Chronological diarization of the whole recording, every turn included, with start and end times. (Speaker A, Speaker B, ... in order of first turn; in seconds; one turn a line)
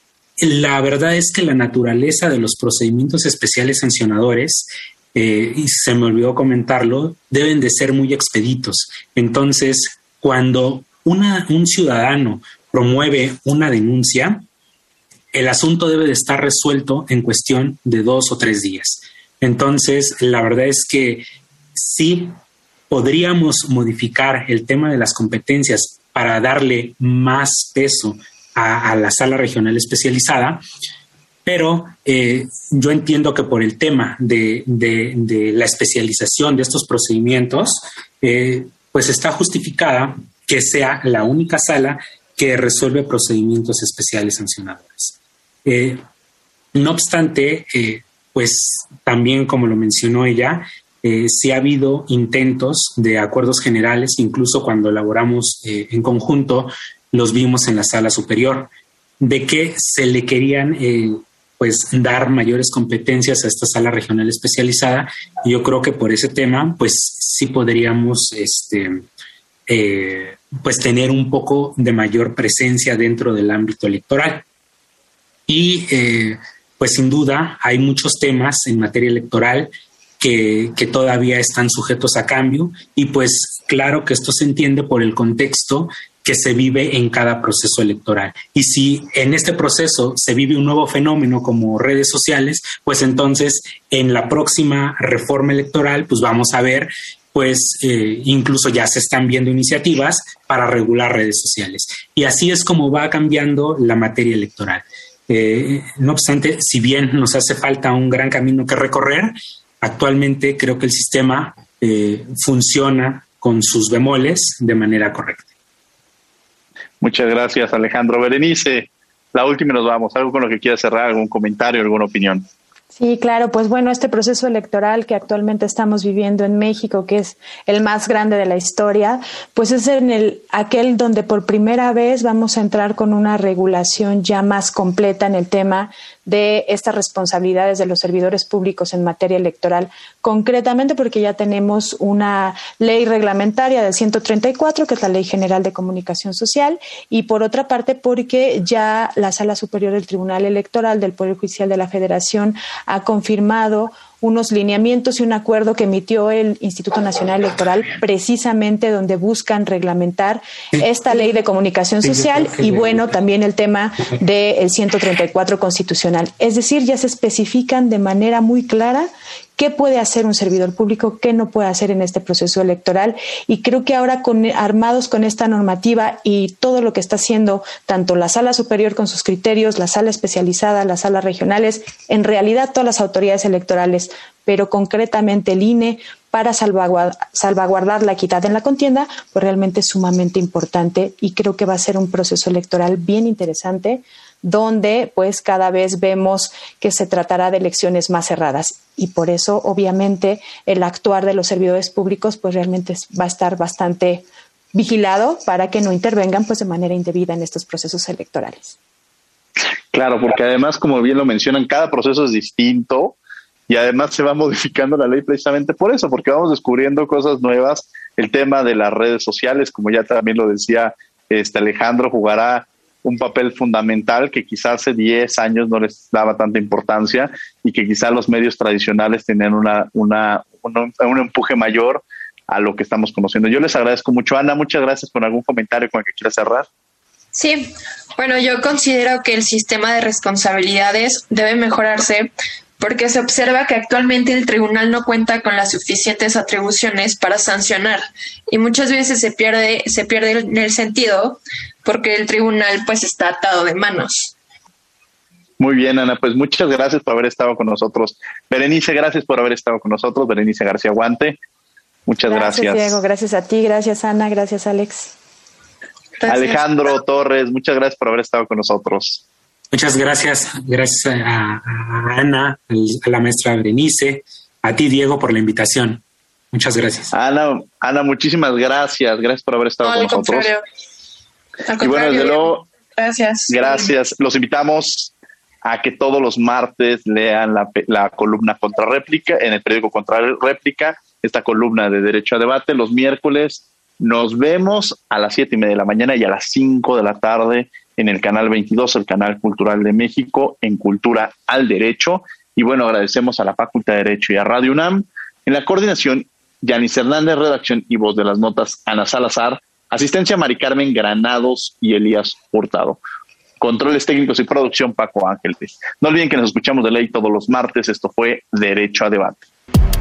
Speaker A: 0.4-14.4
Speaker A: 15.3-21.2
Speaker A: 21.8-22.3
Speaker A: 22.9-30.6
Speaker A: 31.4-46.0
Speaker A: 46.7-69.0
Speaker A: 69.7-74.4
Speaker A: 75.5-115.5
Speaker B: 117.0-122.5
Speaker C: 123.0-208.8
Speaker A: 162.1-163.0
Speaker B: 209.9-213.2
Speaker B: 213.7-236.7
Speaker D: 237.3-254.3
Speaker B: 255.6-261.4
Speaker B: 262.1-263.0
Speaker C: 262.2-265.1
Speaker D: 266.2-266.7
Speaker B: 266.2-269.2
Speaker A: 269.7-277.1
Speaker B: 277.1-280.5
Speaker D: 279.8-280.6
Speaker D: 281.6-283.9
Speaker B: 281.8-282.7
Speaker B: 283.5-285.1
Speaker B: 285.6-313.0
Speaker B: 313.6-319.4